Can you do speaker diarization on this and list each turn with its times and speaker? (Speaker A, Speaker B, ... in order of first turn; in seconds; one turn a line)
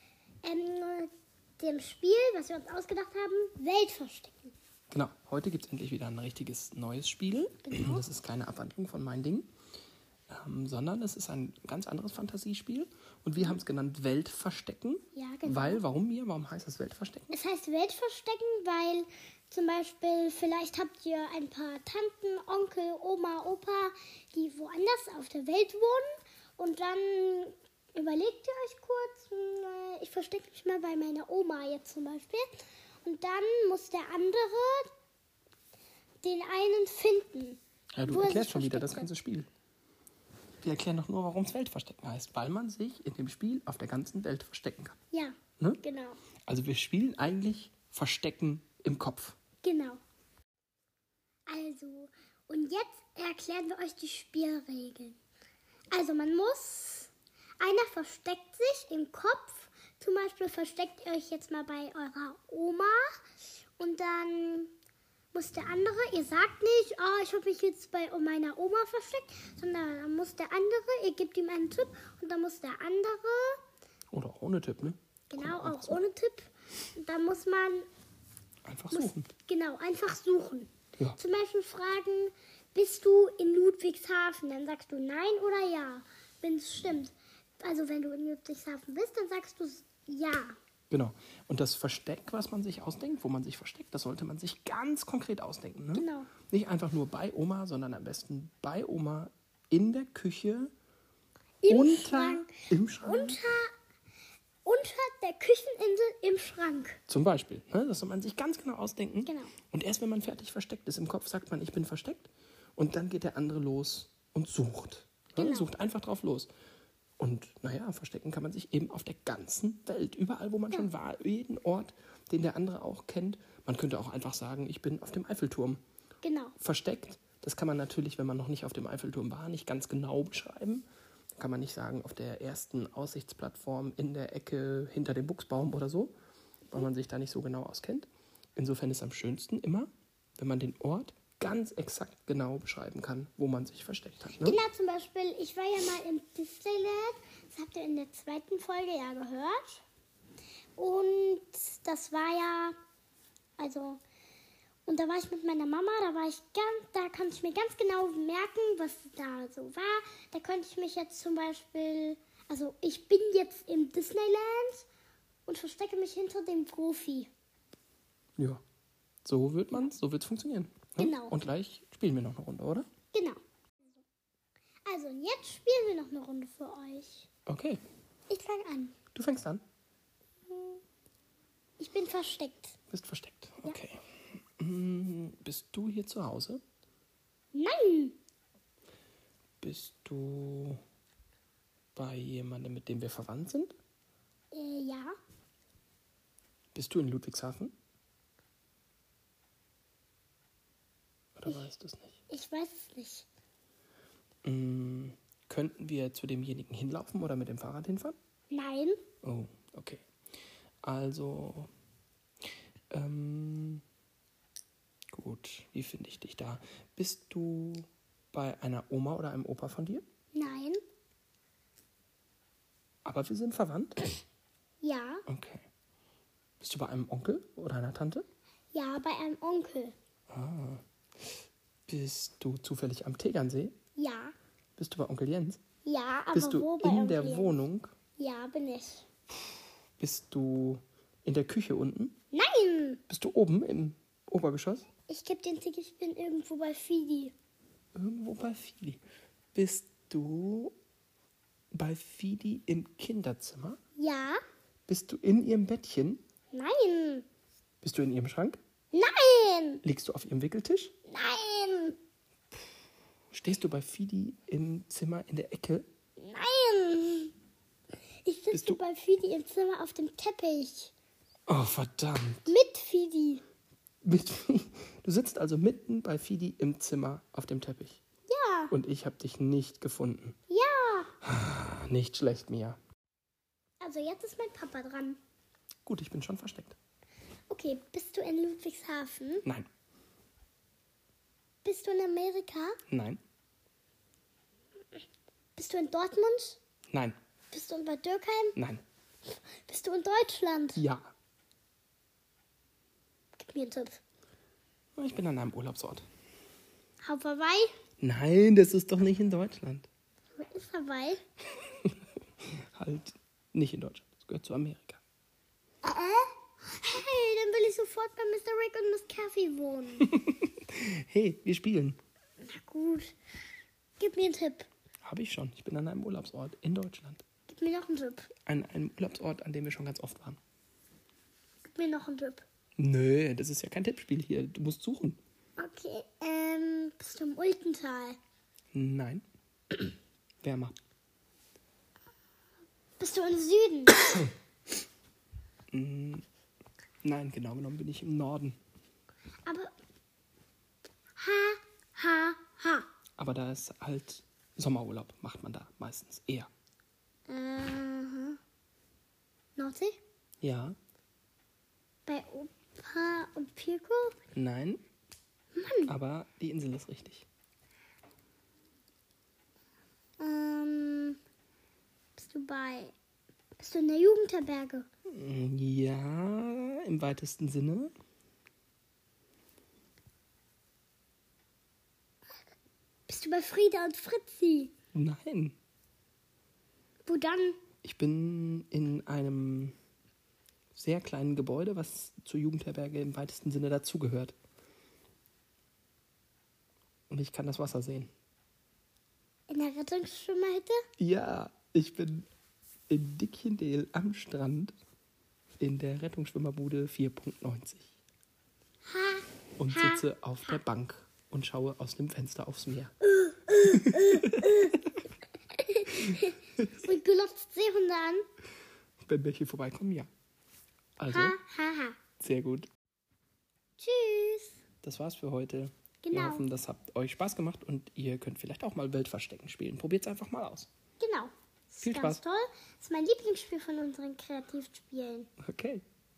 Speaker A: 0.4-4.5
Speaker B: 4.9-9.5
Speaker A: 7.7-8.1
Speaker B: 10.3-17.3
Speaker A: 15.1-15.8
Speaker A: 17.3-32.5
Speaker A: 33.0-34.9
Speaker A: 36.2-39.1
Speaker B: 38.0-39.5
Speaker B: 40.6-45.0
Speaker A: 45.1-46.2
Speaker B: 46.5-49.4
Speaker A: 49.6-50.0
Speaker A: 51.5-55.2
Speaker A: 55.9-63.2
Speaker A: 63.8-64.7
Speaker A: 65.3-73.6
Speaker B: 74.1-76.0
Speaker A: 75.3-77.9
Speaker B: 78.7-79.3
Speaker A: 78.9-90.5
Speaker B: 90.9-100.7
Speaker A: 96.0-96.3
Speaker A: 101.6-103.7
Speaker B: 101.7-103.4
Speaker A: 104.7-107.0
Speaker B: 107.1-116.5
Speaker A: 109.2-109.5
Speaker A: 115.4-115.7
Speaker B: 117.2-125.8
Speaker A: 126.2-126.5
Speaker B: 126.6-130.8
Speaker B: 131.4-136.1
Speaker B: 136.7-144.6
Speaker A: 144.4-149.8
Speaker A: 150.8-152.8
Speaker A: 153.6-154.0
Speaker A: 154.9-164.9
Speaker A: 165.5-167.3
Speaker B: 168.4-168.6
Speaker B: 169.2-172.9
Speaker A: 171.0-171.4
Speaker A: 173.1-173.4
Speaker A: 174.9-177.3
Speaker B: 177.5-177.8
Speaker A: 178.3-178.9
Speaker B: 179.2-179.6
Speaker A: 180.5-180.8
Speaker A: 181.8-182.8
Speaker B: 182.9-184.0
Speaker B: 184.6-186.6
Speaker A: 187.5-188.2
Speaker B: 189.6-190.8
Speaker B: 191.9-193.8
Speaker A: 194.5-195.1
Speaker B: 196.7-197.7
Speaker B: 201.4-202.2
Speaker A: 202.3-203.3
Speaker B: 204.4-208.2
Speaker A: 208.5-209.0
Speaker B: 209.2-210.0
Speaker B: 210.8-211.7
Speaker B: 212.9-213.8
Speaker B: 215.1-220.0
Speaker A: 220.3-220.8
Speaker B: 223.1-224.0
Speaker A: 224.8-225.2
Speaker B: 225.3-225.7
Speaker B: 226.6-228.3
Speaker A: 228.7-229.9
Speaker B: 230.3-231.3
Speaker B: 231.9-233.7
Speaker A: 234.0-234.3
Speaker B: 234.8-235.6
Speaker A: 235.8-237.6
Speaker B: 236.3-237.9
Speaker A: 238.2-239.1
Speaker B: 240.0-242.1
Speaker A: 242.3-243.0
Speaker B: 243.1-244.9
Speaker A: 245.1-247.3
Speaker B: 247.9-249.0
Speaker B: 249.5-250.8
Speaker B: 251.7-253.8
Speaker A: 254.0-254.4
Speaker B: 254.9-256.2
Speaker A: 256.5-257.3
Speaker B: 257.8-258.6
Speaker A: 258.9-259.8
Speaker B: 259.8-260.9
Speaker A: 261.1-262.0
Speaker B: 263.3-265.9
Speaker A: 266.2-267.3
Speaker A: 268.2-270.9
Speaker B: 268.5-268.8
Speaker B: 271.5-272.5
Speaker A: 272.5-273.4
Speaker B: 274.0-278.0
Speaker A: 278.3-278.7
Speaker B: 278.7-280.4
Speaker A: 280.5-281.1
Speaker B: 281.2-282.8
Speaker A: 283.8-285.2
Speaker B: 285.9-286.8
Speaker A: 287.5-289.4
Speaker A: 291.6-292.8
Speaker B: 292.9-293.2
Speaker A: 295.6-296.6
Speaker B: 296.9-297.2
Speaker A: 297.5-298.6
Speaker B: 298.6-298.8
Speaker A: 299.6-300.8
Speaker B: 300.8-301.1
Speaker A: 303.4-304.0
Speaker B: 305.0-306.1
Speaker A: 307.0-307.7
Speaker B: 308.0-309.9
Speaker A: 310.4-311.2
Speaker B: 311.8-315.0
Speaker A: 315.8-320.1
Speaker B: 320.0-322.0
Speaker A: 322.4-323.1
Speaker A: 324.0-324.7
Speaker B: 325.0-327.2
Speaker A: 327.5-328.3
Speaker B: 328.5-330.4
Speaker A: 331.7-332.4
Speaker B: 332.8-335.2
Speaker A: 335.6-338.2
Speaker B: 338.7-339.2
Speaker B: 340.4-340.8
Speaker A: 343.0-344.1
Speaker B: 345.7-346.2
Speaker B: 347.0-348.6
Speaker A: 349.4-349.7
Speaker A: 351.2-352.9
Speaker B: 353.2-356.5
Speaker A: 357.3-358.4
Speaker A: 359.6-360.0
Speaker B: 360.4-360.8
Speaker A: 362.1-364.2
Speaker B: 364.3-364.8
Speaker A: 365.6-365.9
Speaker B: 365.9-367.2
Speaker A: 370.2-371.2
Speaker A: 372.2-372.9
Speaker A: 373.6-374.9
Speaker B: 375.1-377.9
Speaker A: 383.1-384.7
Speaker B: 384.9-385.6
Speaker A: 387.1-387.6
Speaker B: 387.8-389.8
Speaker B: 390.7-394.4
Speaker B: 397.1-398.1
Speaker A: 399.5-400.8
Speaker B: 401.0-402.3
Speaker B: 402.9-404.8
Speaker B: 405.6-407.9
Speaker A: 408.9-410.6
Speaker B: 409.6-412.9
Speaker A: 413.0-414.8
Speaker B: 413.7-414.8
Speaker A: 415.5-418.2
Speaker B: 415.9-416.9
Speaker B: 419.1-420.1
Speaker B: 421.0-421.4
Speaker A: 421.1-422.0
Speaker B: 422.2-422.7
Speaker A: 423.8-424.6
Speaker B: 424.8-430.7
Speaker A: 426.0-426.4
Speaker A: 431.0-435.3
Speaker B: 431.8-432.2
Speaker B: 435.4-435.8